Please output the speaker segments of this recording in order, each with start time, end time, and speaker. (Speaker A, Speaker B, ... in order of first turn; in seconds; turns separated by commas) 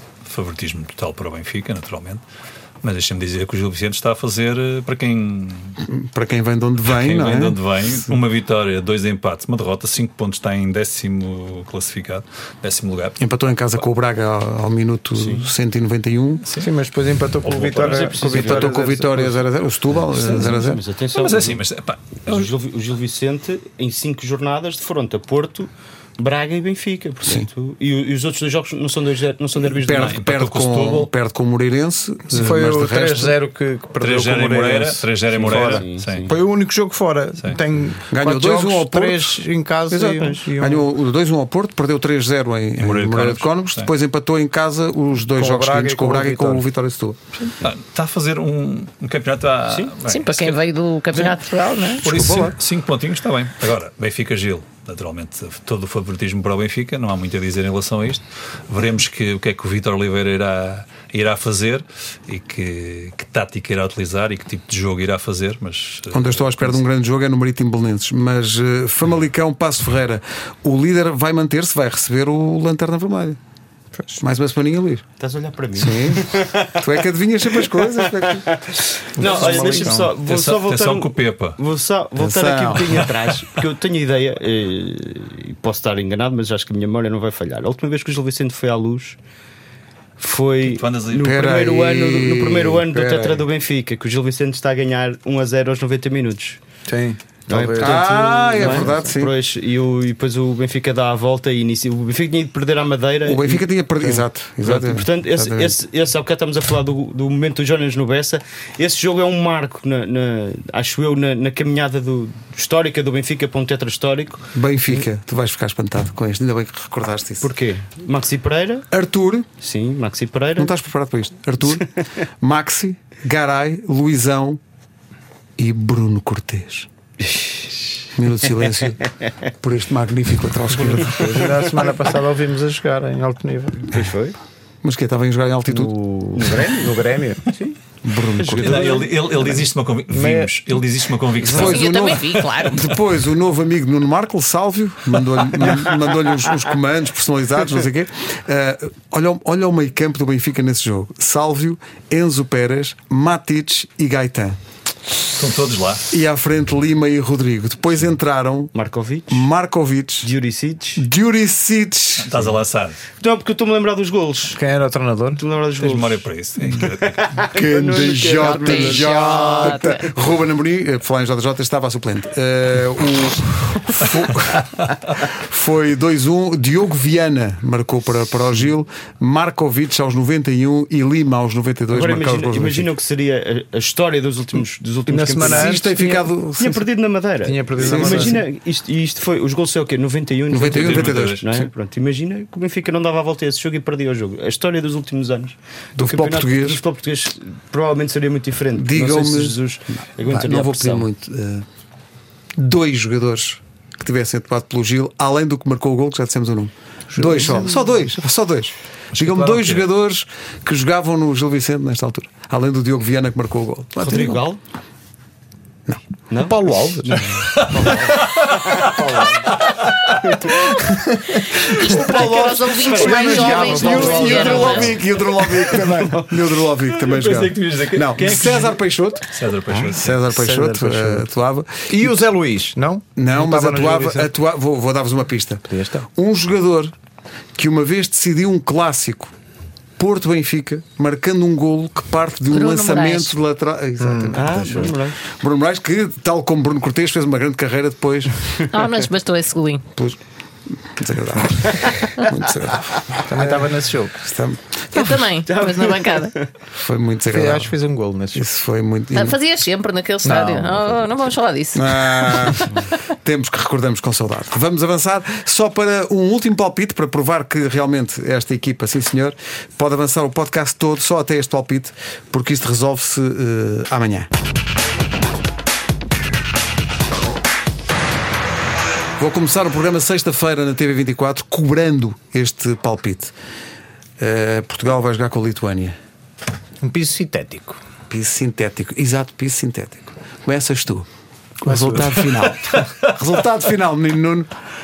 Speaker A: 0.3-2.2, Speaker A: 2.8-5.8, Speaker B: 5.8-8.1, Speaker A: 6.8-13.2, Speaker B: 13.2-16.4, Speaker C: 15.2-15.5, Speaker D: 16.6-19.4, Speaker C: 17.5-19.3, Speaker B: 18.2-20.8, Speaker C: 20.0-21.6, Speaker A: 21.1-22.5, Speaker C: 22.2-30.2, Speaker B: 29.8-33.4, Speaker A: 29.9-31.1, Speaker D: 32.3-40.9, Speaker A: 34.0-36.3, Speaker C: 35.3-36.4, Speaker B: 38.1-47.2, Speaker C: 40.1-40.4, Speaker A: 42.8-43.9, Speaker D: 45.4-46.6, Speaker A: 47.5-50.6, Speaker C: 49.7-50.0, Speaker E: 50.0-52.1, Speaker A: 52.0-66.8, Speaker B: 52.0-52.5, Speaker B: 66.1-73.4, Speaker B: 74.2-75.0, Speaker C: 75.2-76.8, Speaker B: 75.7-78.5, Speaker C: 78.0-89.2, Speaker D: 79.2-80.1, Speaker A: 79.2-81.6, Speaker B: 82.2-83.1, Speaker C: 90.2-96.6, Speaker A: 90.6-91.3, Speaker B: 91.2-92.8, Speaker D: 92.9-93.5, Speaker D: 96.9-99.1, Speaker C: 97.5-103.6, Speaker B: 97.8-99.3, Speaker B: 103.2-105.8, Speaker C: 104.6-114.5, Speaker B: 114.5-117.5, Speaker C: 117.4-118.9, Speaker B: 118.9-119.5, Speaker C: 119.6-120.7, Speaker B: 120.6-121.8, Speaker B: 122.4-124.6, Speaker B: 125.6-126.9, Speaker C: 127.3-127.7, Speaker B: 128.1-131.4, Speaker D: 130.7-134.0, Speaker C: 131.4-131.9, Speaker C: 133.9-134.3, Speaker B: 134.8-135.9, Speaker D: 135.7-137.5, Speaker C: 136.3-136.9, Speaker C: 137.5-137.8, Speaker B: 138.0-139.0, Speaker C: 138.4-139.1, Speaker D: 138.6-140.7, Speaker A: 138.6-142.4, Speaker B: 141.4-154.6, Speaker E: 141.5-142.9, Speaker A: 155.3-156.1, Speaker B: 156.1-158.7, Speaker C: 158.7-159.5, Speaker B: 159.3-160.3, Speaker C: 160.2-161.0, Speaker B: 161.0-162.5, Speaker A: 162.2-163.0, Speaker C: 163.2-164.6, Speaker D: 164.5-165.4, Speaker C: 165.3-169.9, Speaker A: 165.8-167.2, Speaker B: 167.5-182.9, Speaker E: 168.4-170.0, Speaker C: 181.9-201.1, Speaker D: 185.1-185.9, Speaker B: 185.4-186.8, Speaker D: 187.4-188.4, Speaker B: 187.8-188.4, Speaker B: 190.5-191.7, Speaker A: 190.6-191.4, Speaker B: 195.9-196.8, Speaker B: 198.8-199.6, Speaker B: 200.2-201.7, Speaker B: 202.6-214.4, Speaker D: 207.3-207.6, Speaker C: 207.4-207.7, Speaker A: 209.1-209.8, Speaker C: 214.0-214.6, Speaker C: 216.3-219.4, Speaker D: 216.4-217.9, Speaker A: 217.6-220.1, Speaker D: 218.9-219.4, Speaker E: 221.4-225.0, Speaker B: 221.6-229.2, Speaker C: 222.1-224.9, Speaker D: 222.9-224.9, Speaker D: 225.6-226.2, Speaker C: 225.7-226.3, Speaker A: 226.9-230.1, Speaker D: 229.7-231.2, Speaker B: 229.9-232.2, Speaker D: 231.9-234.3, Speaker B: 233.2-236.9, Speaker D: 235.7-236.1, Speaker B: 237.6-239.3, Speaker B: 240.0-248.6, Speaker E: 242.5-243.3, Speaker D: 244.0-244.4, Speaker C: 244.3-245.2, Speaker E: 248.7-249.9, Speaker B: 250.8-255.2, Speaker D: 253.2-254.2, Speaker E: 254.9-256.3, Speaker C: 255.5-256.5, Speaker B: 256.7-257.7, Speaker D: 257.3-258.4, Speaker B: 258.3-259.4, Speaker E: 259.1-262.8, Speaker D: 260.2-261.0, Speaker B: 261.7-274.3, Speaker B: 279.2-283.3, Speaker B: 284.2-285.9, Speaker D: 286.8-287.8, Speaker B: 288.1-291.1, Speaker B: 291.6-294.5, Speaker D: 291.6-292.2